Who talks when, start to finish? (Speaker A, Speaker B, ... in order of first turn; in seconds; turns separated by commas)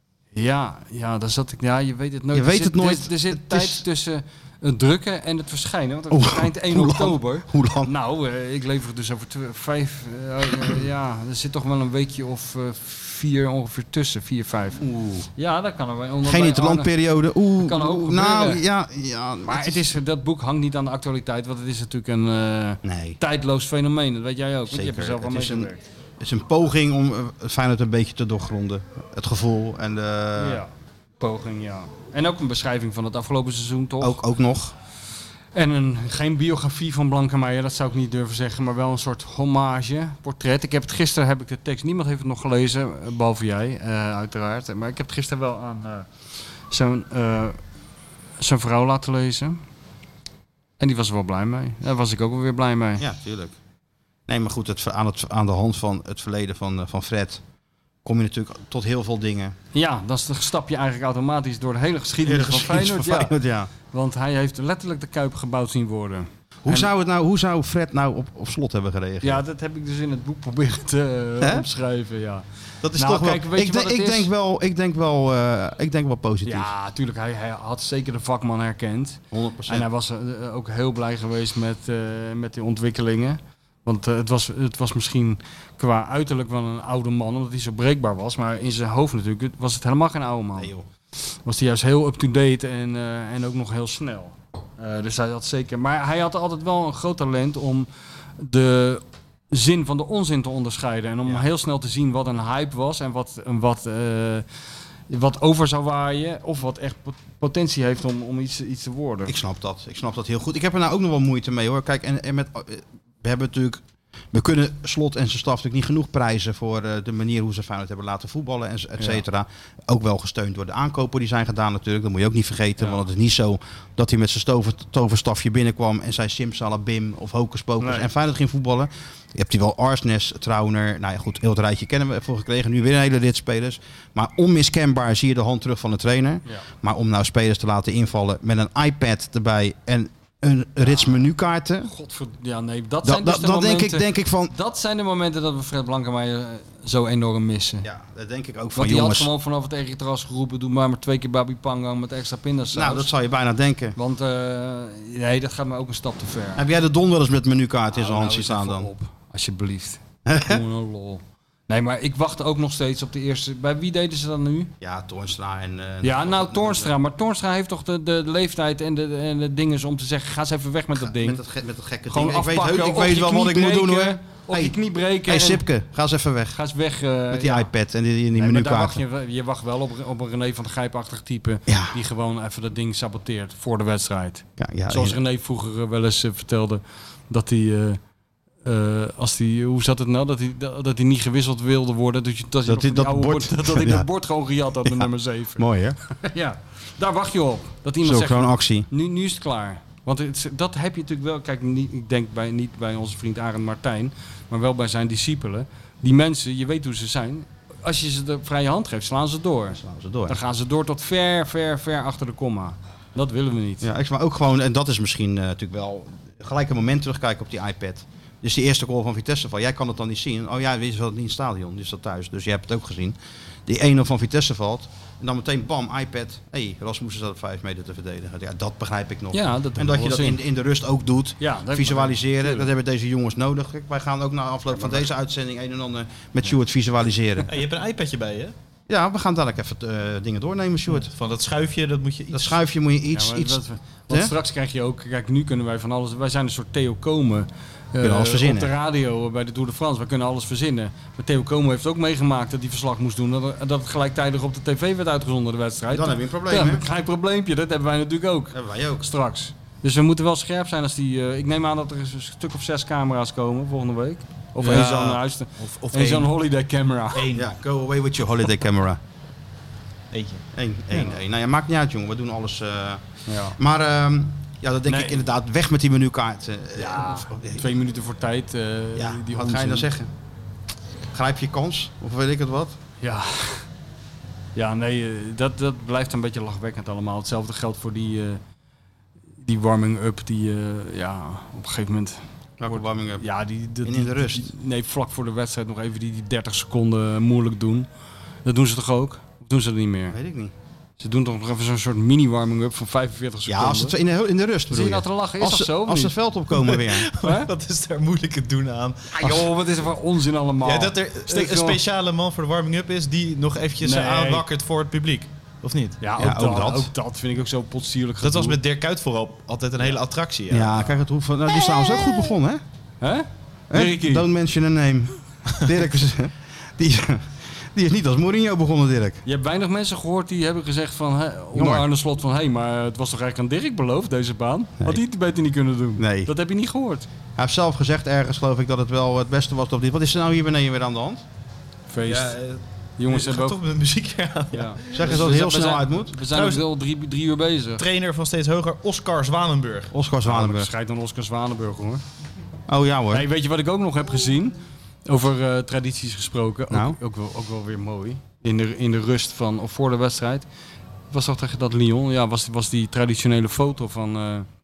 Speaker A: 0.3-14.8, Speaker B: 2.3-3.8, Speaker B: 6.1-7.9, Speaker B: 14.8-15.3, Speaker A: 15.4-16.9, Speaker B: 16.2-19.8, Speaker A: 17.6-18.6, Speaker A: 19.4-25.8, Speaker B: 22.8-23.2, Speaker B: 24.7-30.6, Speaker A: 30.4-34.2, Speaker B: 34.0-34.7, Speaker A: 35.5-46.1, Speaker A: 46.7-47.6, Speaker A: 48.4-49.6, Speaker A: 50.8-53.0, Speaker B: 53.0-53.6, Speaker B: 54.3-57.4, Speaker B: 58.0-59.6, Speaker A: 59.7-63.3, Speaker B: 62.2-63.7, Speaker A: 63.9-66.9, Speaker B: 66.7-69.4, Speaker A: 69.2-72.4, Speaker B: 71.4-71.7, Speaker B: 72.8-76.7, Speaker A: 72.9-74.3, Speaker A: 76.4-90.7, Speaker B: 79.3-79.9, Speaker B: 90.6-90.9, Speaker A: 91.4-104.4, Speaker A: 105.1-109.3, Speaker B: 109.3-141.9, Speaker A: 119.0-119.2, Speaker A: 127.8-128.1, Speaker A: 141.9-147.9, Speaker B: 143.0-144.5, Speaker B: 147.8-149.3, Speaker A: 148.7-153.1, Speaker B: 152.7-153.9, Speaker A: 153.9-156.7, Speaker B: 156.6-158.9, Speaker A: 157.9-164.7, Speaker B: 160.2-160.6, Speaker B: 164.8-166.9, Speaker A: 166.0-171.4, Speaker B: 171.0-176.6, Speaker A: 172.1-175.7, Speaker A: 176.5-177.7, Speaker B: 177.3-179.0, Speaker A: 178.3-188.0, Speaker B: 181.7-181.9, Speaker B: 184.6-185.2, Speaker A: 188.6-213.9, Speaker B: 192.7-194.1, Speaker B: 194.8-196.0, Speaker B: 198.0-198.9, Speaker B: 209.8-210.4, Speaker B: 213.8-237.5, Speaker A: 229.3-230.4, Speaker A: 231.4-232.7, Speaker C: 237.4-238.5, Speaker B: 238.9-241.1, Speaker C: 240.9-242.6, Speaker B: 242.3-244.3, Speaker A: 243.1-267.2, Speaker B: 248.0-248.7, Speaker B: 255.9-256.9, Speaker B: 258.5-259.1, Speaker C: 264.6-266.3, Speaker C: 267.1-267.5, Speaker B: 267.3-269.0, Speaker C: 270.1-270.4, Speaker B: 270.5-273.0, Speaker A: 273.3-273.6, Speaker B: 273.6-277.7, Speaker A: 274.9-275.3, Speaker A: 276.8-279.9, Speaker B: 278.9-280.1, Speaker B: 281.1-282.8, Speaker A: 283.0-283.6, Speaker A: 284.6-288.4, Speaker A: 289.4-297.9, Speaker B: 292.6-293.3, Speaker B: 293.8-294.5, Speaker A: 298.4-300.2, Speaker B: 300.1-300.5, Speaker A: 301.0-304.0, Speaker B: 303.5-307.1, Speaker A: 304.7-306.1, Speaker C: 306.5-309.4, Speaker A: 307.2-307.5, Speaker A: 309.1-311.8, Speaker B: 309.2-309.5, Speaker C: 310.6-316.0, Speaker A: 313.8-314.4, Speaker A: 316.0-318.6, Speaker B: 316.2-316.9, Speaker C: 318.2-320.9, Speaker B: 320.5-322.6, Speaker A: 323.0-324.3, Speaker B: 323.7-329.2, Speaker A: 329.2-337.1, Speaker B: 331.6-331.9, Speaker B: 336.0-336.3, Speaker B: 337.4-341.2, Speaker A: 341.9-342.4, Speaker C: 342.1-345.3, Speaker A: 343.0-343.6, Speaker A: 344.5-347.9, Speaker B: 344.9-346.1, Speaker C: 346.3-346.6, Speaker C: 347.8-349.9, Speaker B: 349.9-350.7, Speaker A: 350.2-352.0, Speaker B: 352.7-353.3, Speaker A: 353.1-354.6, Speaker A: 355.1-360.5, Speaker B: 356.7-357.0, Speaker A: 361.1-364.5